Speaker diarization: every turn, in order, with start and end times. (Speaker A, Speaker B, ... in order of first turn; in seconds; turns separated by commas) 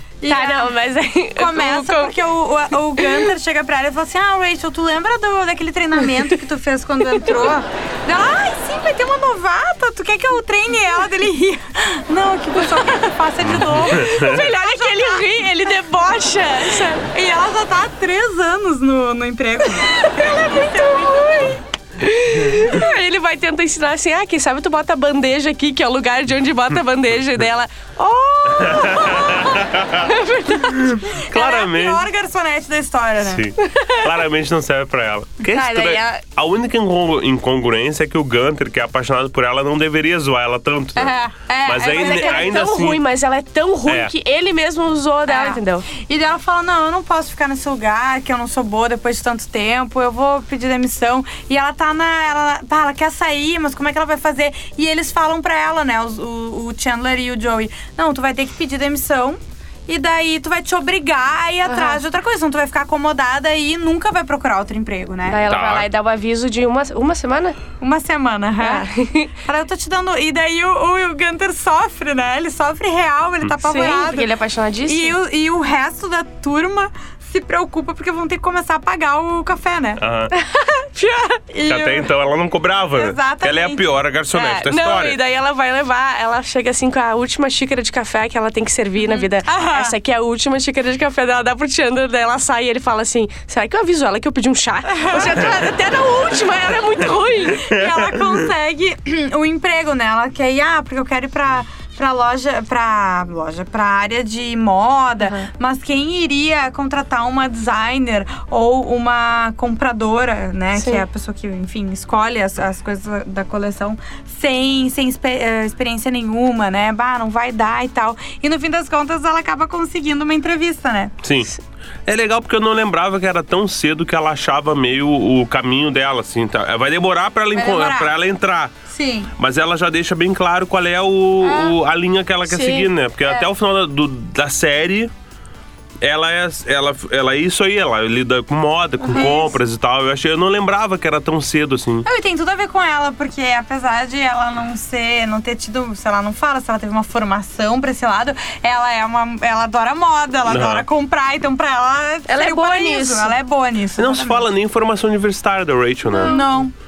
Speaker A: 0.2-0.7, Speaker B: 0.3-2.1, Speaker A: 1.4-15.7, Speaker B: 3.0-3.3, Speaker C: 13.4-14.4, Speaker B: 13.6-17.1, Speaker A: 17.1-21.6, Speaker B: 19.8-31.0, Speaker C: 28.5-32.1, Speaker A: 31.1-33.5, Speaker C: 33.2-43.0, Speaker B: 33.6-34.1, Speaker B: 35.5-36.2, Speaker A: 41.0-42.7, Speaker B: 41.9-45.9, Speaker A: 45.3-65.4, Speaker B: 61.7-62.0, Speaker B: 65.3-67.6, Speaker C: 65.5-65.9, Speaker A: 67.8-74.3, Speaker B: 68.6-69.3, Speaker B: 73.6-75.2, Speaker A: 74.9-80.0, Speaker C: 80.0-80.3, Speaker B: 80.3-81.4, Speaker A: 81.5-82.1, Speaker C: 81.7-85.2, Speaker A: 82.9-83.9, Speaker B: 84.3-97.7, Speaker A: 89.0-89.9, Speaker A: 94.9-95.5, Speaker A: 97.5-121.1, Speaker C: 97.7-98.4, Speaker B: 110.8-111.0, Speaker C: 121.2-121.5, Speaker C: 122.1-128.7, Speaker A: 127.5-128.1, Speaker A: 128.9-129.3, Speaker C: 129.4-135.1, Speaker B: 132.5-132.9, Speaker C: 136.0-142.1, Speaker A: 139.1-139.6, Speaker A: 142.1-154.4, Speaker C: 150.5-150.9, Speaker B: 152.3-153.3, Speaker C: 153.9-156.4, Speaker B: 156.1-156.4, Speaker A: 156.2-156.7